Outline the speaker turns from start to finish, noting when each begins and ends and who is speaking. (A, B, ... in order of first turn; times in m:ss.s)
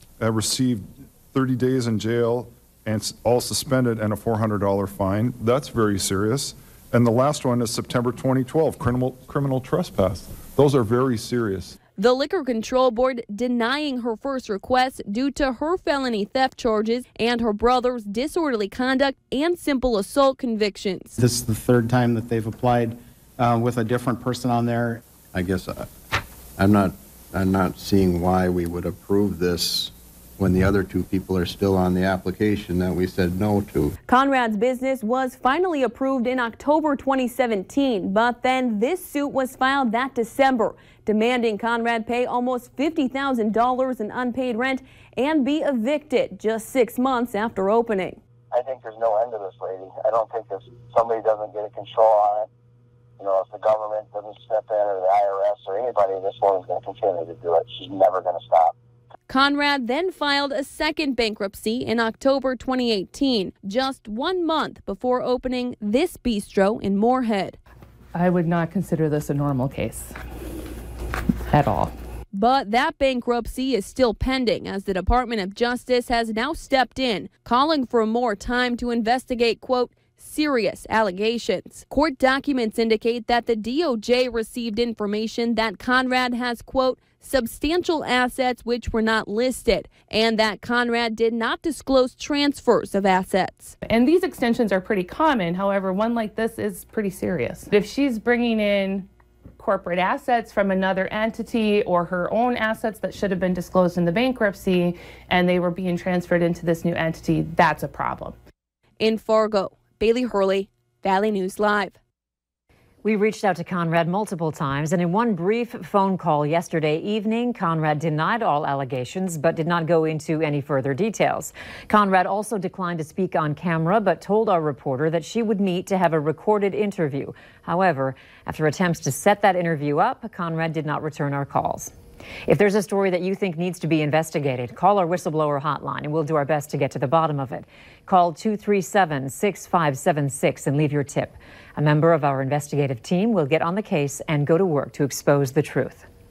0:00.2-0:11.8 A
0:12.0-0:21.2 B
0:21.2-0:25.0 C
0:25.3-0:25.9 D
0:26.6-0:33.9 D
0:34.1-0:48.2 B
0:48.5-0:52.5 E
0:53.2-0:58.7 E
0:59.3-1:07.6 B
1:08.1-1:10.1 F
1:11.5-1:11.9 F
1:12.3-1:33.8 B
1:33.9-1:48.4 F
1:49.0-1:52.0 B
1:53.0-2:11.9 G
2:12.5-2:26.1 G